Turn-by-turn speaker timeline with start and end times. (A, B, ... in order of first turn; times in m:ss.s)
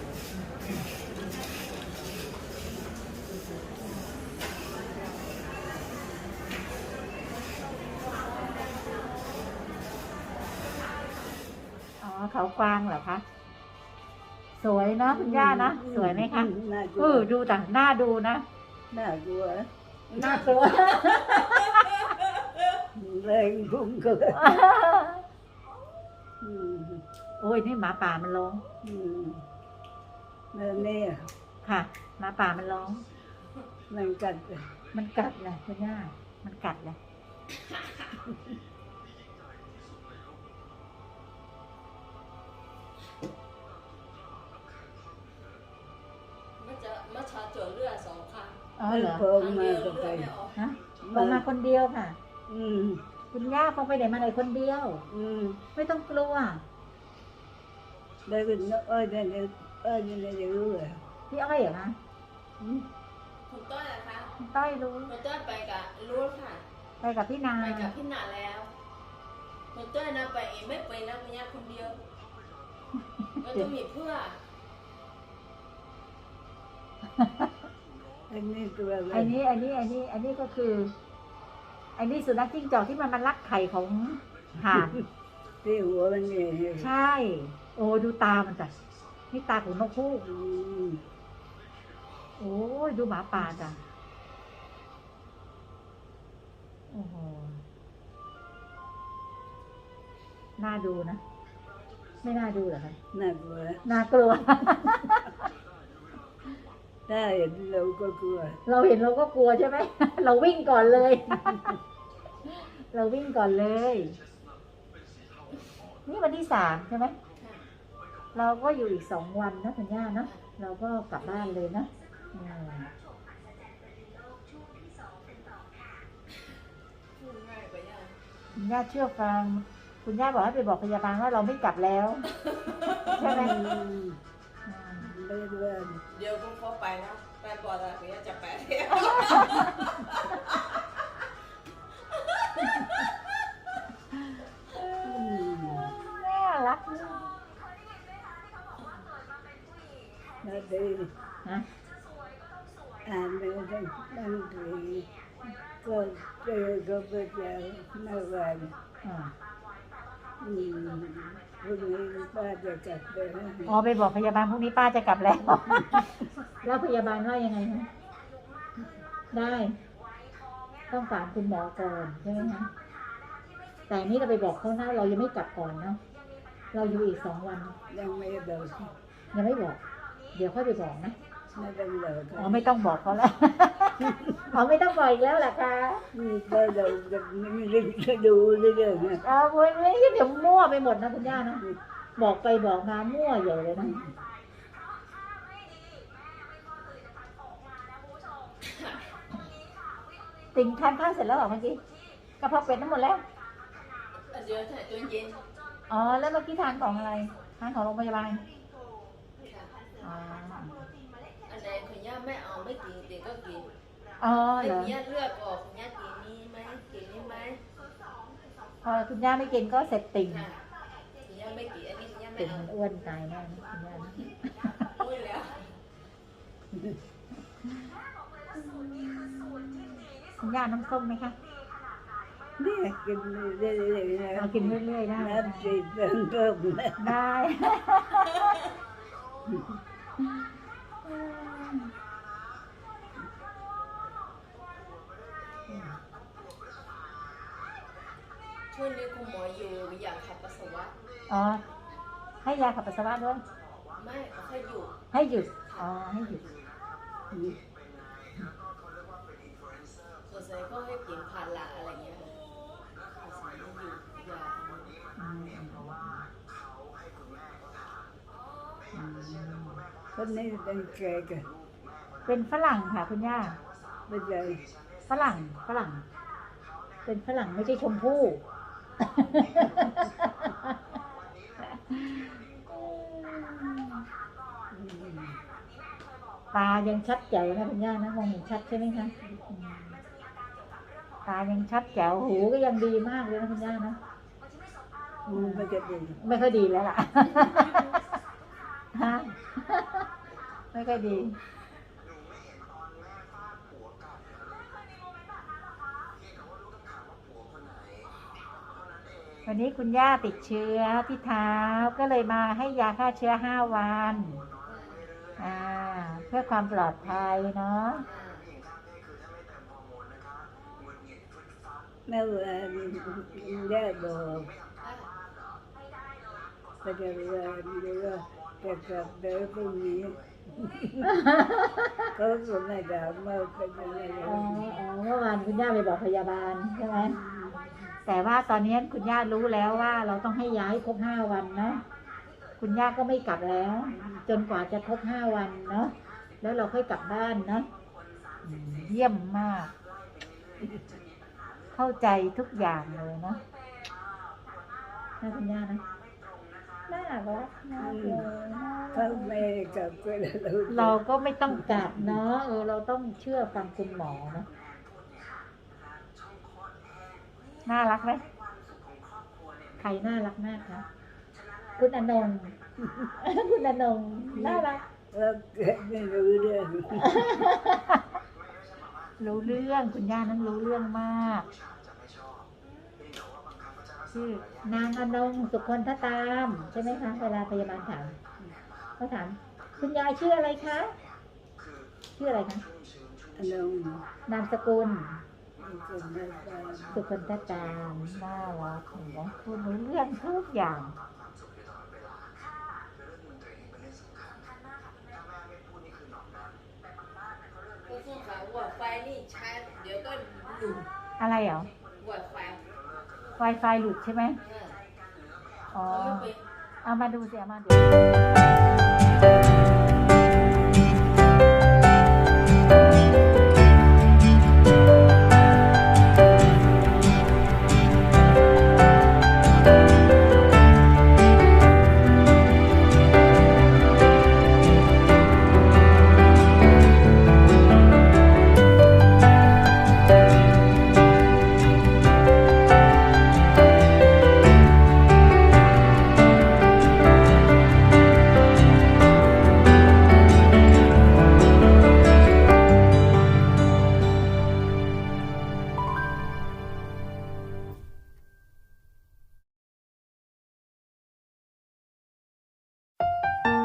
0:12.0-0:13.2 A
0:14.6-0:18.4 A
0:15.1-0:17.3 B
0:18.9-0:19.7 B
0:20.1-0:21.9 A
0:20.2-0:21.6 C
0:23.0-0:24.6 B
0:24.3-0:25.2 A
0:26.4-0:27.0 B
0:27.4-0:28.6 A
0:28.8-0:29.4 B
0:30.5-0:31.3 B
0:31.6-0:33.0 A
0:33.9-0:34.7 B
0:34.9-0:37.0 A
0:37.7-0:38.1 C
0:46.6-0:48.6 C
0:48.8-0:49.3 A
0:48.9-0:50.3 B
0:49.3-0:50.6 C
0:50.6-0:52.2 A
0:51.0-0:51.4 B
0:52.5-0:53.0 B
0:53.3-0:55.0 A
0:55.1-0:55.6 B
0:55.8-0:56.6 A
0:58.3-1:01.0 B
1:01.3-1:02.0 A
1:02.6-1:02.8 B
1:03.5-1:04.3 C
1:04.4-1:05.1 A
1:05.1-1:06.6 C
1:07.0-1:07.9 A
1:07.6-1:08.7 C
1:09.7-1:12.0 C
1:13.2-1:13.7 A
1:13.4-1:14.4 C
1:17.2-1:17.5 A
1:18.3-1:19.4 B
1:19.1-1:20.9 A
1:22.0-1:25.0 A
1:24.7-1:25.0 B
1:25.6-1:26.9 B
1:26.8-1:28.7 A
1:29.3-1:30.3 A
1:30.3-1:31.0 B
1:32.4-1:33.8 A
1:36.9-1:37.6 A
1:40.6-1:41.2 A
1:42.2-1:43.0 A
1:43.1-1:43.8 B
1:43.8-1:45.3 A
1:47.1-1:48.6 B
1:48.6-1:51.7 A
1:51.4-1:51.8 B
1:52.4-1:54.2 A
1:56.0-1:57.2 A
1:57.4-1:57.6 C
1:58.3-2:02.9 A
2:07.2-2:08.2 C
2:08.5-2:12.3 A
2:12.4-2:13.5 C
2:13.1-2:13.6 A
2:13.2-2:14.2 B
2:14.7-2:15.1 A
2:15.0-2:16.0 B
2:16.1-2:20.7 C
2:19.0-2:19.9 A
2:24.2-2:27.3 A
2:25.0-2:25.9 B
2:30.4-2:31.1 B
2:33.0-2:35.1 B
2:35.8-2:38.7 B
2:39.0-2:39.3 A
2:40.4-2:43.7 B
2:43.7-2:47.9 A
2:45.8-2:46.1 B
2:49.3-2:49.8 A
2:50.9-2:52.7 A
2:53.9-2:56.0 A
2:56.7-2:57.8 A
2:57.9-2:58.9 B
2:59.3-2:59.8 A
3:00.3-3:01.2 A
3:01.6-3:02.6 B
3:02.4-3:06.0 A
3:04.1-3:04.4 B
3:06.1-3:09.2 B
3:09.2-3:11.6 A
3:12.2-3:14.0 A
3:20.5-3:21.8 A
3:22.4-3:23.2 A
3:24.3-3:25.4 C
3:25.9-3:28.4 A
3:29.4-3:29.8 C
3:30.0-3:30.8 A
3:31.5-3:33.7 C
3:34.2-3:34.9 A
3:34.6-3:37.6 C
3:38.8-3:40.5 A
3:40.3-3:40.6 C
3:41.2-3:42.7 C
3:42.4-3:44.7 A
3:44.9-3:45.6 C
3:48.5-3:51.4 A
3:52.6-3:57.2 B
3:54.4-3:55.8 A
3:57.0-3:58.3 A
4:01.0-4:01.9 A
4:08.7-4:10.9 C
4:11.3-4:11.6 A
4:12.4-4:13.4 A
4:14.0-4:15.0 C
4:15.1-4:16.4 A
4:17.3-4:17.6 B
4:20.2-4:22.4 C
4:23.2-4:24.9 C
4:25.2-4:26.3 A
4:28.9-4:29.8 A
4:30.1-4:31.5 B
4:32.3-4:33.6 A
4:34.1-4:34.6 B
4:35.1-4:36.0 A
4:37.0-4:38.4 A
4:39.0-4:40.8 A
4:41.7-4:44.0 A
4:44.7-4:45.4 B
4:46.5-4:50.0 A
4:51.2-4:54.0 A
4:55.3-4:56.2 B
4:55.3-4:55.7 A
4:56.2-4:58.0 A
4:58.9-5:00.1 A
5:00.7-5:01.4 A
5:09.5-5:14.4 A
5:14.7-5:15.1 C
5:15.4-5:18.0 A
5:18.0-5:18.5 C
5:22.1-5:24.5 B
5:24.8-5:25.1 C
5:26.8-5:31.1 B
5:31.0-5:32.1 A
5:32.2-5:34.8 B
5:34.2-5:37.2 A
5:36.9-5:37.9 B
5:38.0-5:41.8 A
5:42.6-5:47.7 A
5:44.0-5:44.2 B
5:48.4-5:49.7 A
5:51.7-5:53.4 A
5:55.2-5:55.8 A
5:56.9-5:59.4 A
5:57.8-5:58.3 B
5:58.9-6:02.1 B
6:00.7-6:04.5 A
6:07.7-6:08.2 A
6:09.8-6:10.8 A
6:11.8-6:12.6 A
6:12.8-6:13.1 B
6:13.2-6:14.8 A
6:14.3-6:17.3 B
6:17.0-6:18.0 A
6:19.2-6:21.5 A
6:24.1-6:28.2 A
6:29.0-6:30.9 A
6:32.2-6:32.6 A
6:33.4-6:34.0 B
6:34.3-6:35.2 A
6:35.6-6:37.0 B
6:36.9-6:41.0 A
6:47.9-6:50.8 C
6:51.2-6:51.7 A
6:52.0-6:52.6 C
6:53.4-6:54.4 A
6:54.4-6:54.8 C
6:55.7-6:56.3 A
6:55.8-6:56.4 C
6:56.8-6:57.9 A